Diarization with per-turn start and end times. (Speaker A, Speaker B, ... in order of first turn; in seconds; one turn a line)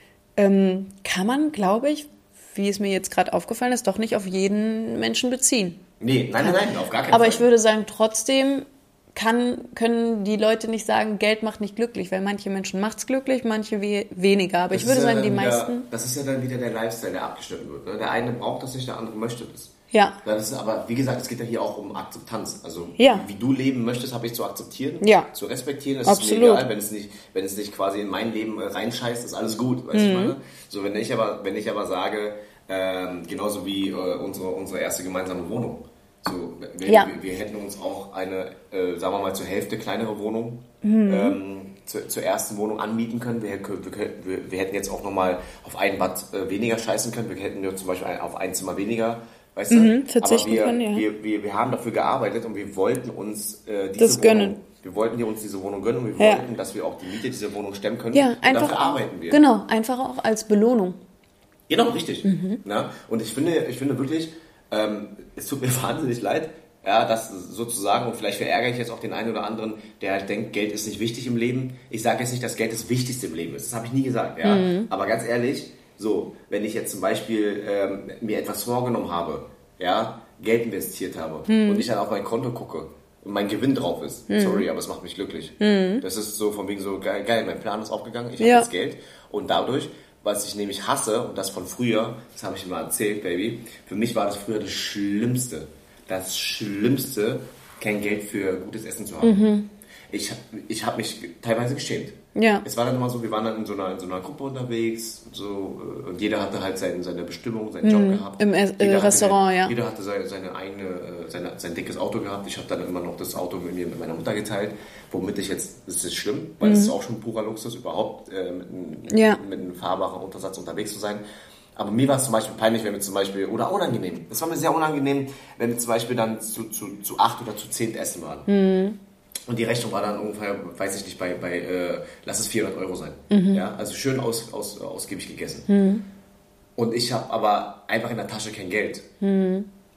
Speaker A: 0.4-5.8
Speaker B: 6.0-7.5
Speaker A: 6.4-15.9
Speaker B: 14.7-19.7
Speaker A: 19.9-20.2
Speaker B: 20.2-59.4
Speaker A: 23.0-23.2
Speaker A: 25.0-25.3
Speaker A: 26.0-26.6
Speaker A: 29.9-30.3
Speaker A: 36.8-37.1
Speaker A: 40.8-41.4
Speaker A: 49.7-51.0
Speaker A: 54.0-54.6
Speaker A: 56.2-56.4
Speaker A: 58.1-61.0
Speaker B: 61.7-99.5
Speaker A: 62.2-62.6
Speaker A: 74.4-74.9
Speaker A: 81.5-81.9
Speaker A: 84.3-84.7
Speaker A: 85.6-86.0
Speaker A: 88.4-88.7
Speaker A: 99.2-99.7
Speaker B: 100.1-121.2
Speaker A: 102.3-102.7
Speaker A: 107.8-109.7
Speaker A: 116.6-116.9
Speaker A: 119.1-119.4
Speaker B: 121.8-128.5
Speaker A: 128.5-129.0
Speaker B: 129.5-135.7
Speaker A: 133.3-133.6
Speaker A: 135.7-136.0
Speaker B: 136.8-139.1
Speaker A: 139.2-139.7